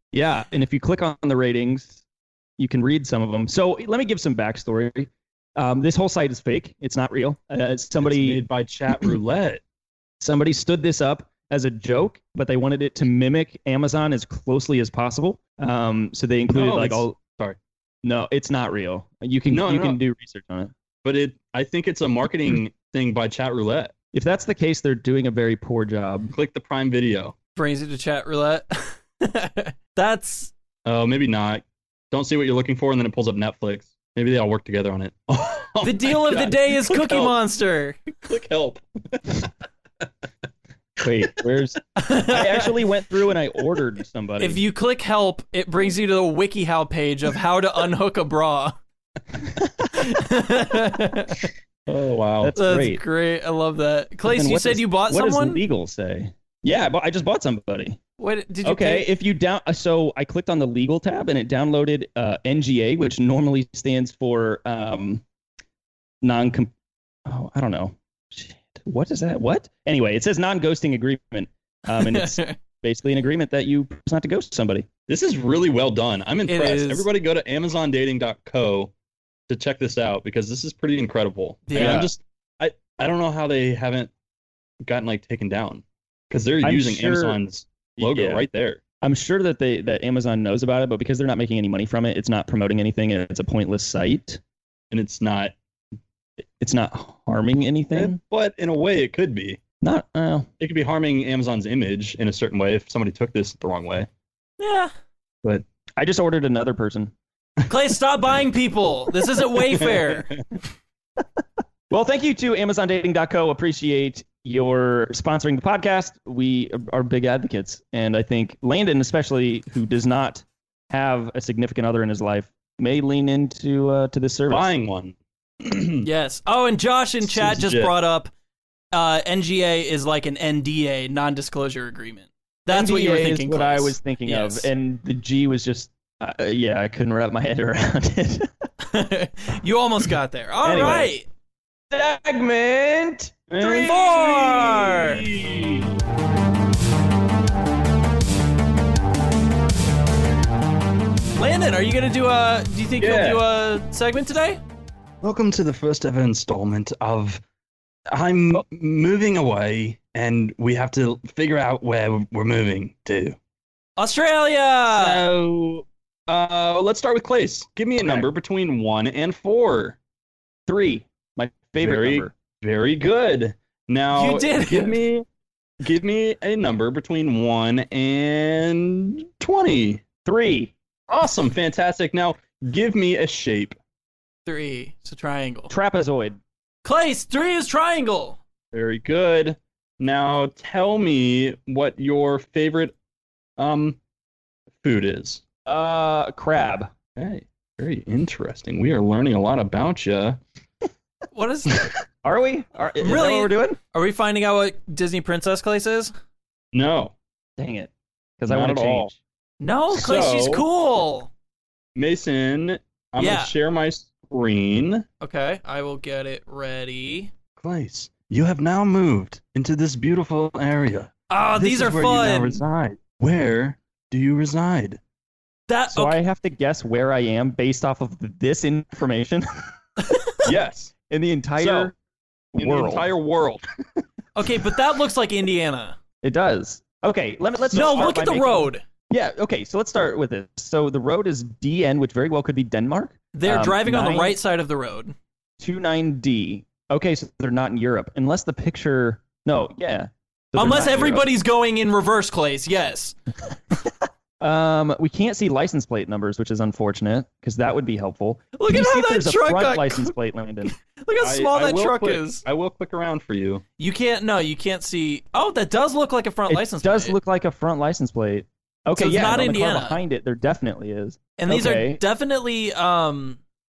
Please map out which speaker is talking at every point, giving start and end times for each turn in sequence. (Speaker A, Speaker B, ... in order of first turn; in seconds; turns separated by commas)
Speaker A: 0.1-2.0, Speaker A: 2.6-8.4, Speaker B: 8.0-9.6, Speaker A: 10.2-17.2, Speaker B: 16.5-17.6, Speaker A: 18.0-20.7, Speaker B: 19.5-20.0, Speaker B: 21.0-23.9, Speaker A: 24.1-26.3, Speaker B: 26.3-27.4, Speaker C: 27.6-30.5, Speaker B: 30.8-37.3, Speaker C: 35.8-38.0, Speaker B: 38.1-39.5, Speaker A: 41.0-44.6, Speaker C: 42.0-42.8, Speaker C: 44.4-48.7, Speaker A: 49.5-50.0, Speaker C: 49.9-51.5, Speaker B: 51.9-52.6, Speaker A: 52.4-53.0, Speaker C: 52.6-55.6, Speaker A: 54.2-58.0, Speaker C: 58.2-59.1, Speaker A: 58.6-65.2, Speaker A: 66.2-66.7, Speaker A: 67.2-74.9, Speaker C: 71.9-72.6, Speaker B: 75.1-78.9, Speaker C: 76.5-77.1, Speaker B: 79.5-84.1, Speaker C: 81.7-82.1, Speaker A: 81.7-82.1, Speaker B: 84.8-88.8, Speaker A: 86.6-87.4, Speaker A: 88.0-88.4, Speaker A: 89.0-94.4, Speaker B: 94.9-95.5, Speaker A: 96.6-98.2, Speaker B: 97.9-99.6, Speaker A: 99.8-100.5, Speaker B: 100.6-104.1, Speaker C: 104.6-104.9, Speaker A: 106.0-107.1, Speaker C: 107.7-110.3, Speaker B: 109.8-110.4, Speaker A: 111.2-124.7, Speaker B: 124.5-126.1, Speaker C: 126.0-128.3, Speaker B: 127.2-127.9, Speaker C: 128.9-134.7, Speaker A: 132.7-138.5, Speaker C: 138.8-141.2, Speaker A: 140.6-141.1, Speaker A: 141.9-145.0, Speaker B: 143.5-146.0, Speaker C: 143.6-145.2, Speaker C: 151.4-154.6, Speaker B: 153.0-153.4, Speaker B: 155.2-157.4, Speaker B: 158.1-163.4, Speaker C: 164.0-165.2, Speaker B: 164.9-170.0, Speaker A: 168.0-168.3, Speaker A: 170.7-172.3, Speaker B: 171.8-175.2, Speaker C: 174.1-175.0, Speaker B: 175.8-180.0, Speaker A: 180.2-180.7, Speaker B: 181.1-183.7, Speaker C: 184.4-185.7, Speaker A: 185.7-186.4, Speaker C: 186.8-188.4, Speaker B: 188.7-192.9, Speaker B: 193.6-194.0, Speaker B: 194.8-195.4, Speaker A: 195.7-196.9, Speaker B: 197.2-200.4, Speaker C: 201.3-201.9, Speaker A: 202.2-203.8, Speaker C: 203.0-206.1, Speaker B: 206.7-207.1, Speaker A: 207.6-209.2, Speaker B: 208.5-209.1, Speaker C: 209.6-211.3, Speaker B: 209.9-210.6, Speaker B: 211.9-215.0, Speaker C: 213.2-213.5, Speaker C: 215.2-217.3, Speaker B: 217.6-225.0, Speaker C: 221.3-222.6, Speaker C: 225.7-226.2, Speaker A: 225.9-229.4, Speaker B: 230.4-230.9, Speaker A: 231.1-231.9, Speaker B: 231.6-231.9, Speaker A: 232.5-233.1, Speaker B: 232.6-233.6, Speaker C: 234.3-235.9, Speaker A: 236.2-244.4, Speaker C: 237.7-238.8, Speaker C: 243.3-245.1, Speaker A: 245.6-251.3, Speaker C: 250.6-253.1, Speaker A: 254.4-260.7, Speaker C: 258.5-260.1, Speaker C: 260.6-262.4, Speaker B: 261.2-263.6, Speaker C: 263.8-267.1, Speaker A: 266.5-272.0, Speaker C: 269.0-270.0, Speaker C: 271.4-273.4